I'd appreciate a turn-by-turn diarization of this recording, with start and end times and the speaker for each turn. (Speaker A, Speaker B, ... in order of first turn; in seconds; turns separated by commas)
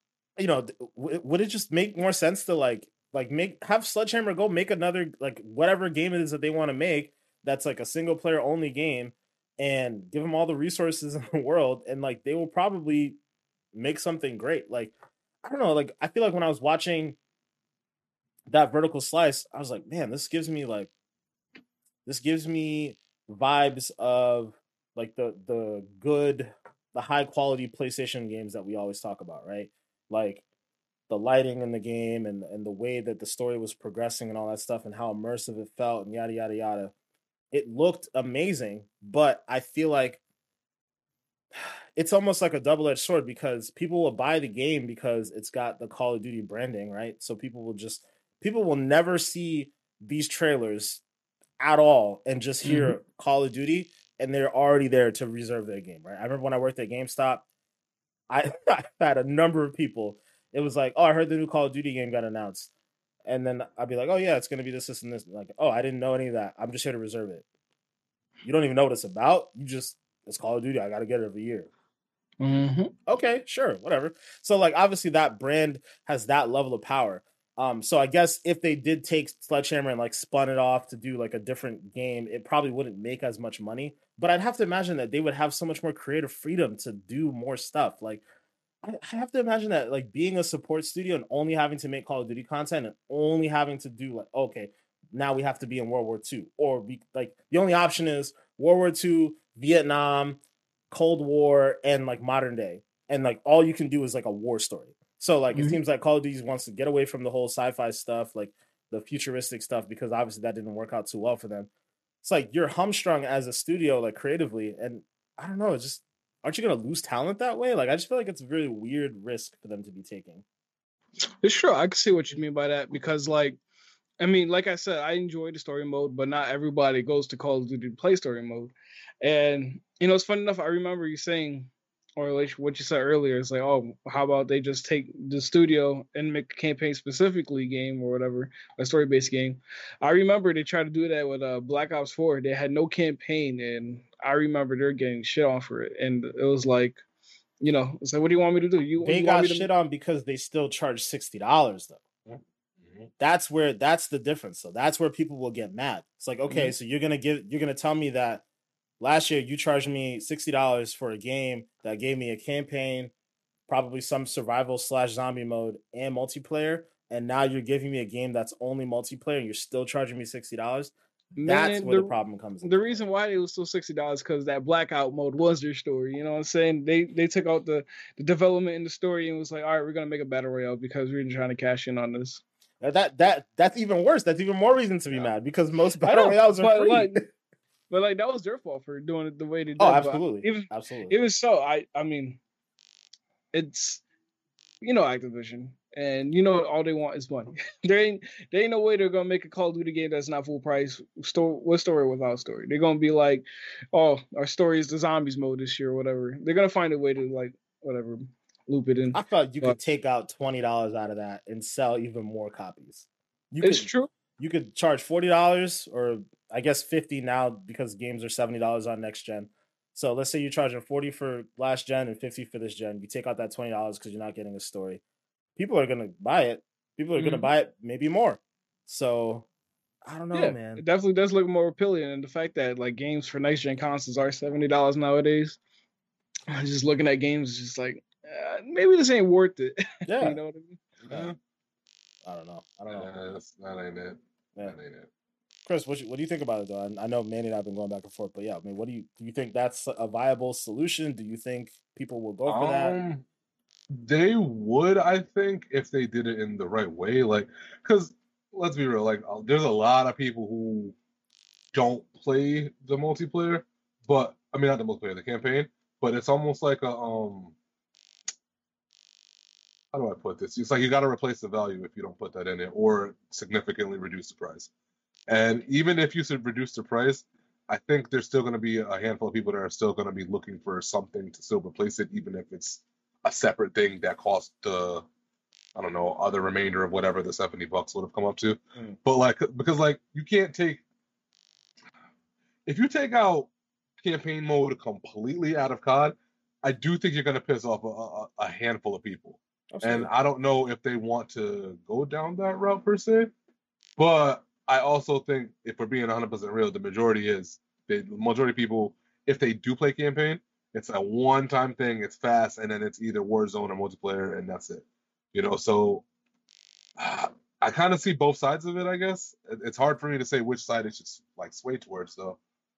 Speaker A: 0.4-13.2, Speaker A: 13.7-17.2, Speaker A: 18.5-20.9, Speaker A: 22.1-30.4, Speaker A: 31.1-36.9, Speaker A: 37.5-40.2, Speaker A: 42.0-51.0, Speaker A: 51.6-57.5, Speaker B: 52.6-53.0, Speaker A: 58.3-62.7, Speaker A: 63.3-67.5, Speaker A: 68.4-71.7, Speaker B: 72.4-72.9, Speaker A: 73.1-88.2, Speaker A: 88.8-100.4, Speaker A: 100.9-111.7, Speaker B: 105.5-105.8, Speaker A: 112.2-120.5, Speaker B: 121.4-123.6, Speaker B: 124.2-147.0, Speaker B: 147.6-149.7, Speaker A: 149.0-152.0, Speaker C: 152.3-153.1, Speaker A: 153.2-158.4, Speaker B: 156.5-156.7, Speaker A: 159.0-163.1, Speaker A: 163.7-173.0, Speaker B: 171.4-182.4, Speaker A: 182.8-187.2, Speaker B: 186.1-187.2, Speaker B: 187.9-192.4, Speaker A: 189.8-191.1, Speaker B: 193.5-194.0, Speaker B: 194.8-209.8, Speaker A: 209.1-225.0, Speaker B: 213.6-214.1, Speaker A: 225.6-229.5, Speaker B: 227.2-227.5, Speaker A: 230.1-230.8, Speaker B: 230.3-235.6, Speaker B: 236.5-240.8, Speaker A: 240.1-240.4, Speaker C: 241.0-241.4, Speaker A: 242.2-243.1, Speaker C: 242.9-245.1, Speaker A: 245.7-253.0, Speaker C: 252.4-253.2, Speaker C: 253.9-260.9, Speaker C: 261.7-267.6, Speaker C: 269.9-274.7, Speaker C: 275.3-285.1, Speaker C: 285.8-290.8, Speaker C: 292.7-293.5, Speaker C: 294.0-303.3, Speaker A: 299.7-300.1, Speaker C: 304.0-316.1, Speaker C: 317.0-322.4